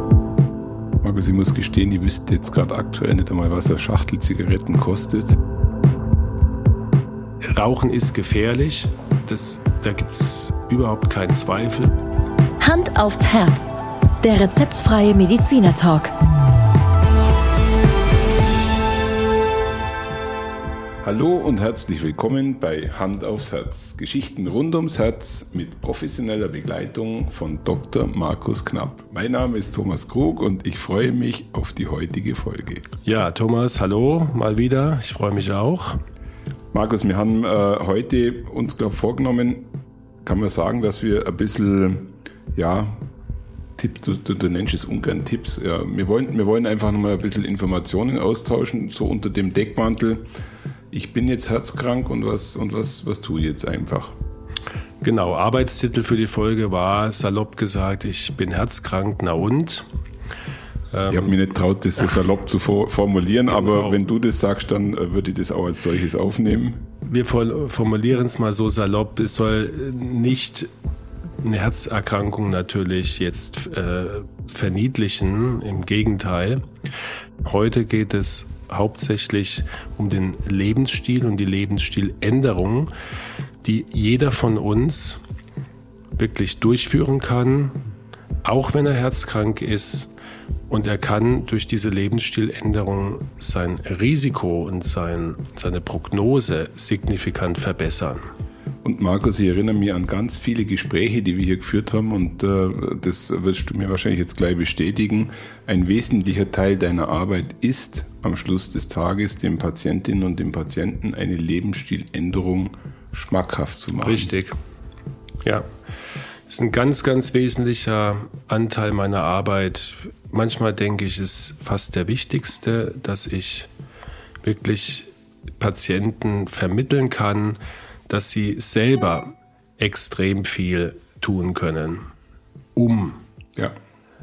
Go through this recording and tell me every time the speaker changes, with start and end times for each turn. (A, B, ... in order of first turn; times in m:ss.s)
0:01.0-0:05.4 A
0:07.5-0:11.9 B
0:12.6-0:16.1 C
0:21.0-0:32.9 A
0:33.0-0:36.0 B
0:36.7-0:39.7 A
0:40.2-0:43.1 A
0:43.8-0:50.3 A
0:50.9-0:54.2 A
0:55.0-0:59.9 B
1:00.9-1:01.3 B
1:01.1-1:06.9 A
1:07.0-1:10.7 B
1:11.4-1:16.6 B
1:17.4-1:22.9 B
1:23.6-1:25.2 B
1:26.2-1:27.8 B
1:28.4-1:30.1 B
1:30.7-1:38.2 B
1:38.8-1:54.3 A
1:54.0-1:54.6 B
1:56.5-2:03.7 B
2:04.4-2:12.1 B
2:12.8-2:13.2 B